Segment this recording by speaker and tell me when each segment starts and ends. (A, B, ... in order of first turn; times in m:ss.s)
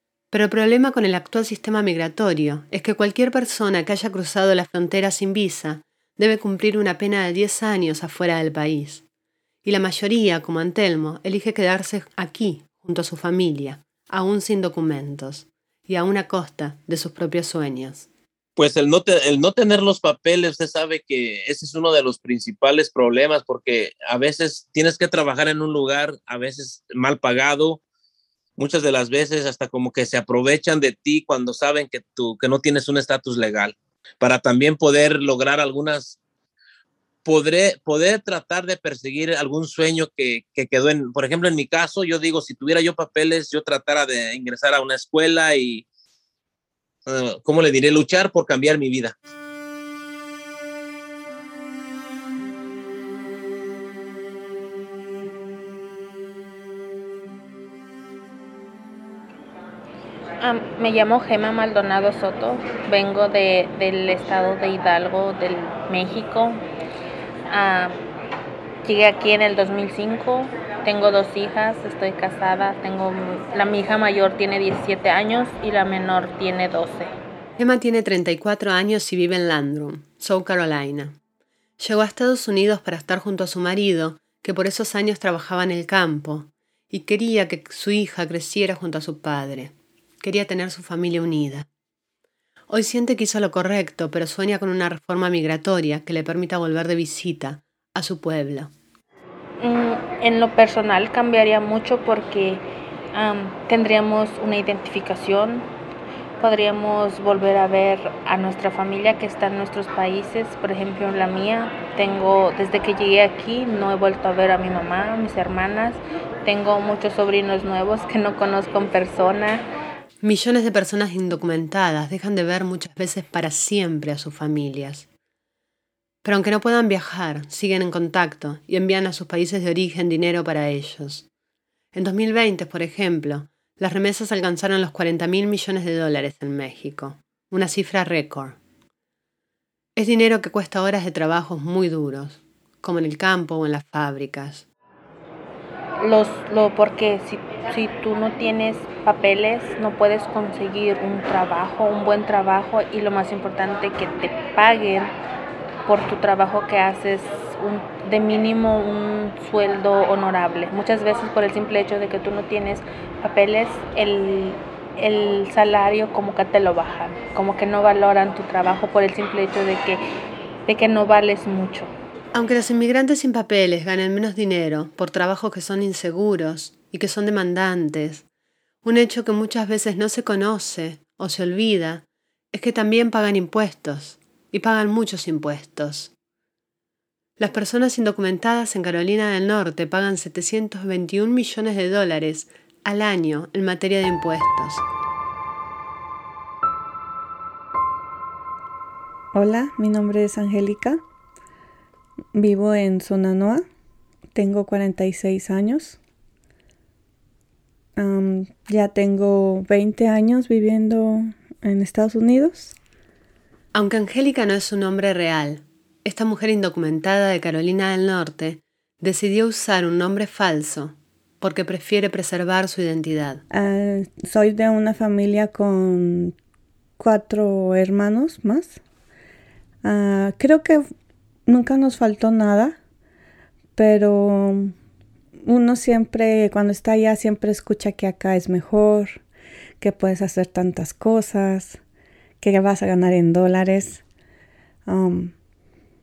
0:00.3-0:09.0 A
0:09.6-0:18.1 A
0:18.6-0:27.8 B
0:28.6-0:36.2 B
0:37.2-0:45.9 B
0:47.1-0:49.2 B
1:00.4-1:06.6 C
1:07.5-1:08.0 C
1:08.8-1:17.1 C
1:17.6-1:21.2 A
1:21.8-1:31.7 A
1:32.7-1:38.7 A
1:39.6-1:45.7 C
1:46.4-1:59.6 C
2:00.2-2:05.1 A
2:06.2-2:11.3 A
2:11.9-2:18.6 A
2:20.0-2:24.7 A
2:26.0-2:35.1 C
2:35.9-2:50.0 C
2:50.7-2:51.9 C
2:52.3-2:58.2 A
2:58.8-3:06.1 A
3:07.4-3:14.8 A
3:19.3-3:21.0 D
3:22.3-3:23.6 D
3:24.3-3:26.0 D
3:28.0-3:32.8 D
3:33.7-3:43.4 A
3:43.5-3:46.4 D
3:47.0-3:48.8 D
3:49.8-3:50.8 D
3:51.5-3:52.8 D
3:53.8-3:54.7 D
3:55.4-3:59.2 D
3:59.8-4:01.8 D
4:02.4-4:04.0 D
4:04.9-4:05.4 D